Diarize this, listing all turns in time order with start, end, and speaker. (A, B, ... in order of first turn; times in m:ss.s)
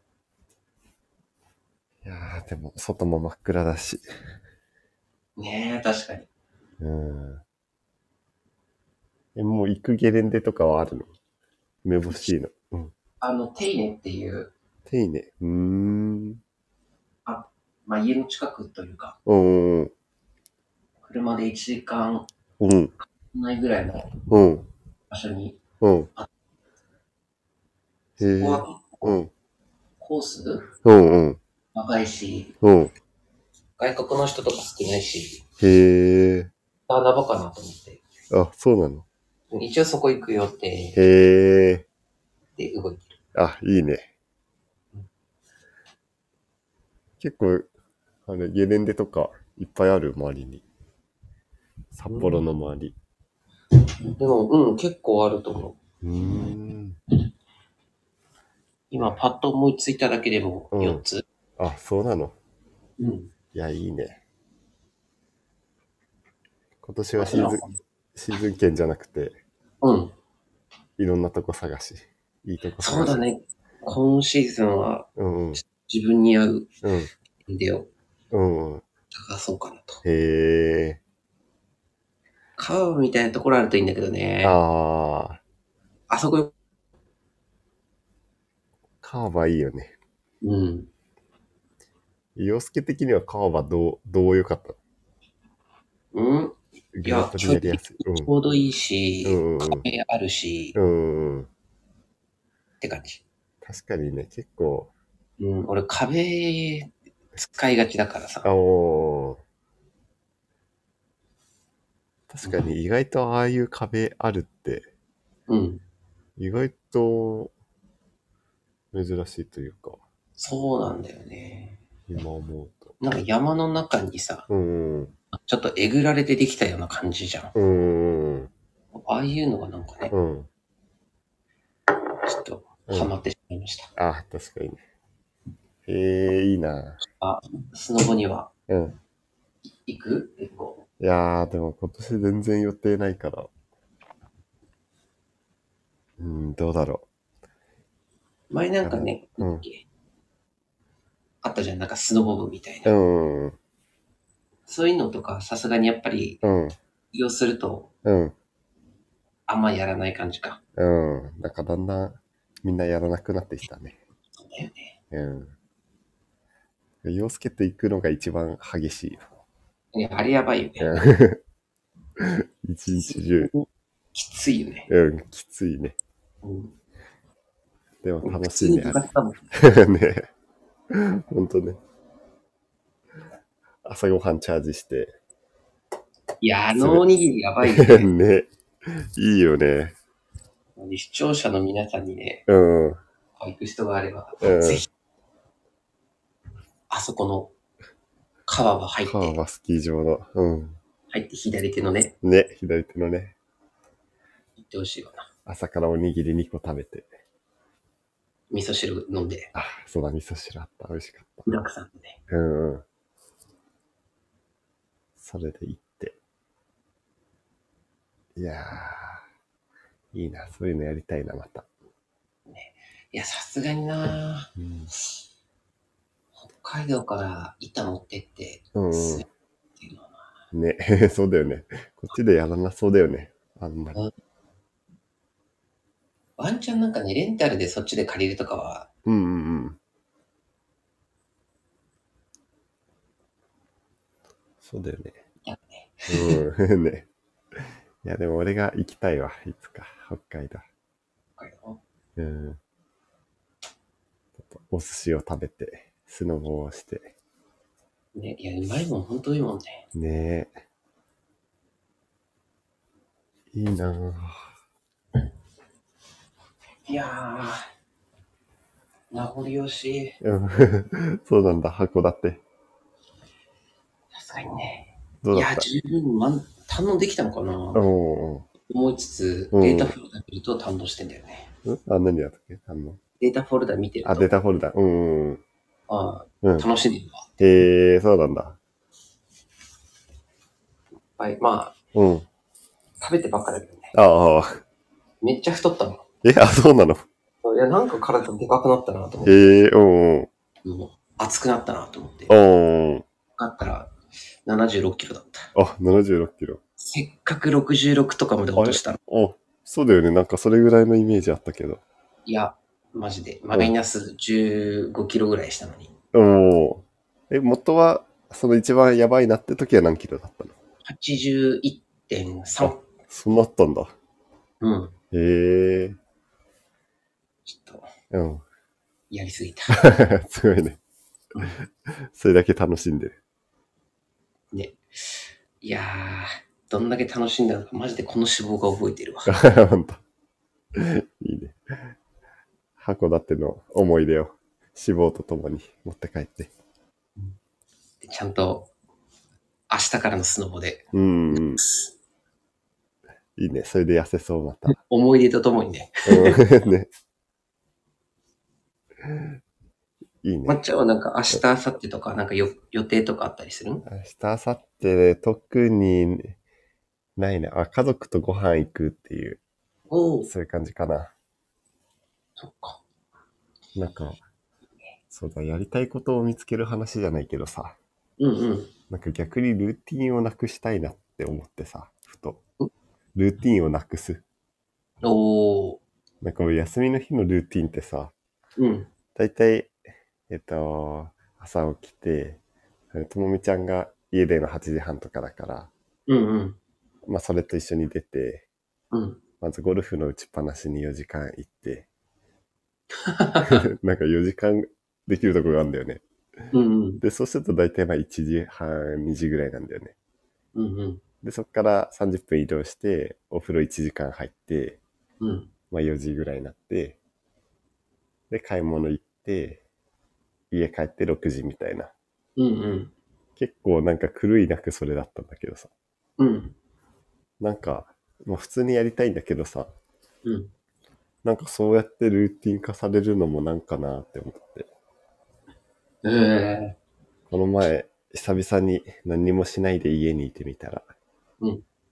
0:02.0-0:04.0 A
0:05.4-0:06.3 B
0:06.8-0:07.4 A
0:09.4-0:11.1 A
0:11.8-0:12.9 A
0:13.2-0:14.5 B
0:14.9-0:16.4 A
0:17.2-0:19.2 B
0:19.2-0:19.9 A
0:21.0-0:22.3 B
0:22.6-0:22.9 A
0:23.3-0:24.1 B
0:24.3-0:24.7 A
0:25.1-0:25.6 B
0:25.8-0:26.1 A
0:28.2-0:29.3 A
0:28.2-0:29.2 B
0:30.0-0:30.7 B
0:30.8-0:31.4 A
0:31.7-0:32.5 B
0:32.6-0:32.9 A
0:33.8-0:35.4 B
0:35.6-0:36.5 A
0:36.9-0:38.0 B
0:38.3-0:39.1 A
0:39.5-0:41.0 B
0:40.9-0:41.8 A
0:42.6-0:43.2 B
0:43.3-0:44.1 A
0:47.2-0:47.7 A
0:48.2-0:50.6 A
0:51.9-0:53.0 A
0:52.1-0:52.4 B
0:54.2-0:55.8 B
0:56.0-0:57.0 A
0:58.9-1:01.2 B
1:00.7-1:01.0 A
1:01.6-1:02.4 A
1:03.0-1:03.3 B
1:03.5-1:04.2 A
1:06.8-1:09.4 A
1:07.2-1:07.8 B
1:09.8-1:10.2 B
1:11.0-1:13.2 A
1:12.8-1:16.7 B
1:15.2-1:15.6 A
1:16.8-1:17.1 A
1:17.5-1:17.9 B
1:18.3-1:18.8 A
1:19.1-1:20.0 B
1:20.0-1:21.0 A
1:22.6-1:24.6 B
1:24.4-1:25.4 A
1:26.1-1:26.5 B
1:29.0-1:29.9 A
1:30.4-1:30.9 B
1:32.4-1:34.8 A
1:36.1-1:40.8 B
1:36.9-1:38.3 A
1:39.2-1:39.9 A
1:40.8-1:41.5 A
1:42.8-1:43.2 B
1:43.6-1:44.9 A
1:45.4-1:48.5 B
1:48.4-1:49.4 A
1:52.3-1:54.9 A
1:55.5-1:55.8 B
1:56.4-1:57.5 A
1:58.9-2:00.0 A
2:00.4-2:01.8 B
2:02.1-2:03.0 A
2:03.0-2:04.5 B
2:04.5-2:05.1 A
2:05.4-2:07.6 B
2:07.6-2:08.5 A
2:08.9-2:10.1 B
2:10.1-2:10.5 A
2:12.2-2:13.9 B
2:14.0-2:14.8 A
2:15.9-2:17.0 A
2:17.0-2:18.5 B
2:18.7-2:19.0 A
2:19.9-2:20.8 B
2:21.0-2:23.5 A
2:26.2-2:27.1 A
2:28.5-2:29.8 B
2:28.8-2:29.7 A
2:31.4-2:32.9 B
2:32.8-2:33.6 A
2:34.7-2:36.4 B
2:36.4-2:36.8 A
2:37.1-2:37.9 B
2:38.0-2:38.4 A
2:39.5-2:40.6 B
2:40.8-2:44.0 A
2:44.4-2:45.0 B
2:45.1-2:45.5 A
2:47.0-2:49.3 A
2:49.9-2:51.0 B
2:50.8-2:51.4 A
2:52.2-2:53.5 A
2:53.0-2:54.9 B
2:54.9-2:56.0 A
2:56.4-2:56.7 B
2:58.0-3:00.3 A
2:58.2-2:59.5 B
3:00.9-3:01.8 A
3:03.8-3:05.2 A
3:06.4-3:08.1 B
3:06.8-3:07.0 A
3:07.6-3:10.0 A
3:10.8-3:12.4 B
3:12.5-3:13.0 A
3:13.4-3:14.9 B
3:14.4-3:14.8 A
3:16.9-3:17.5 B
3:18.4-3:19.4 B
3:19.1-3:20.8 A
3:21.1-3:22.1 B
3:22.2-3:23.4 A
3:24.6-3:25.3 B
3:25.4-3:27.1 A
3:28.5-3:29.5 B
3:29.5-3:31.6 A
3:31.4-3:32.2 B
3:32.3-3:32.8 A
3:35.2-3:36.2 A
3:38.4-3:39.2 A
3:40.1-3:41.7 A
3:42.5-3:44.5 B
3:44.6-3:44.9 A
3:46.4-3:49.3 B
3:48.8-3:49.2 A
3:49.8-3:50.2 B
3:50.5-3:54.0 A
3:56.4-3:58.9 B
3:59.1-3:59.8 A
4:04.6-4:05.2 A
4:05.4-4:06.4 B
4:06.1-4:07.1 A
4:08.0-4:10.7 A
4:11.4-4:11.8 B
4:12.2-4:12.6 A
4:14.4-4:17.1 A
4:18.1-4:19.8 B
4:19.9-4:20.6 A
4:23.5-4:24.5 A
4:26.9-4:27.6 B
4:29.1-4:30.2 B
4:30.2-4:32.4 A
4:34.1-4:37.8 B
4:35.2-4:35.7 A
4:37.7-4:38.5 A
4:38.7-4:41.5 B
4:39.5-4:39.9 A
4:41.6-4:43.0 A
4:43.2-4:44.3 B
4:44.0-4:45.4 A
4:45.9-4:47.3 B
4:46.4-4:46.7 A
4:47.4-4:48.6 A
4:51.1-4:51.8 B
4:51.9-4:52.2 A
4:53.0-4:53.9 B
4:53.9-4:54.6 A
4:55.2-4:56.0 B
4:56.2-4:57.0 A
4:57.4-4:59.5 B
4:59.2-5:00.3 A
5:00.6-5:02.3 B
5:02.3-5:03.0 A
5:03.4-5:03.9 B
5:04.4-5:05.5 B
5:05.6-5:06.6 A
5:06.8-5:09.0 B
5:08.6-5:11.8 A
5:12.2-5:15.9 B
5:16.1-5:20.6 A
5:20.8-5:22.8 B
5:22.6-5:23.9 A
5:24.6-5:24.9 B
5:25.1-5:26.0 A
5:27.4-5:27.9 B
5:28.1-5:28.4 A
5:29.1-5:30.0 B
5:29.7-5:30.8 A
5:31.4-5:33.2 A
5:34.5-5:39.3 B
5:39.3-5:40.0 A
5:40.8-5:41.6 A
5:42.8-5:46.5 A
5:48.0-5:48.7 B
5:49.7-5:51.8 B
5:50.9-5:51.6 A
5:53.4-5:54.8 A
5:54.7-5:56.4 B
5:56.1-5:56.9 A
5:59.0-5:59.4 A
6:00.2-6:00.6 A
6:00.4-6:03.8 B
6:03.8-6:06.4 A
6:07.2-6:09.4 A
6:09.9-6:10.3 B
6:10.3-6:11.1 A
6:12.4-6:12.8 B
6:13.8-6:14.2 A
6:15.1-6:17.8 A
6:18.2-6:18.7 B
6:18.9-6:22.4 A
6:23.2-6:24.2 A
6:25.0-6:25.8 B
6:26.2-6:28.1 A
6:28.6-6:28.9 B
6:29.2-6:29.8 A
6:30.3-6:32.4 A
6:32.9-6:35.7 A
6:36.1-6:36.6 B
6:37.1-6:38.4 A
6:38.9-6:39.2 B
6:39.4-6:41.9 A
6:43.0-6:43.6 B
6:43.4-6:46.0 A
6:46.5-6:47.0 B
6:47.0-6:49.9 A
6:50.6-6:51.0 B
6:51.2-6:54.8 A
6:55.2-6:55.5 B
6:55.7-6:57.0 A
6:58.3-6:59.6 A
7:00.5-7:01.9 A
7:02.4-7:02.9 B
7:03.4-7:05.7 A
7:06.2-7:06.6 B
7:07.4-7:09.7 A
7:10.2-7:10.5 B
7:11.2-7:14.7 A
7:16.0-7:16.8 B
7:17.3-7:20.9 A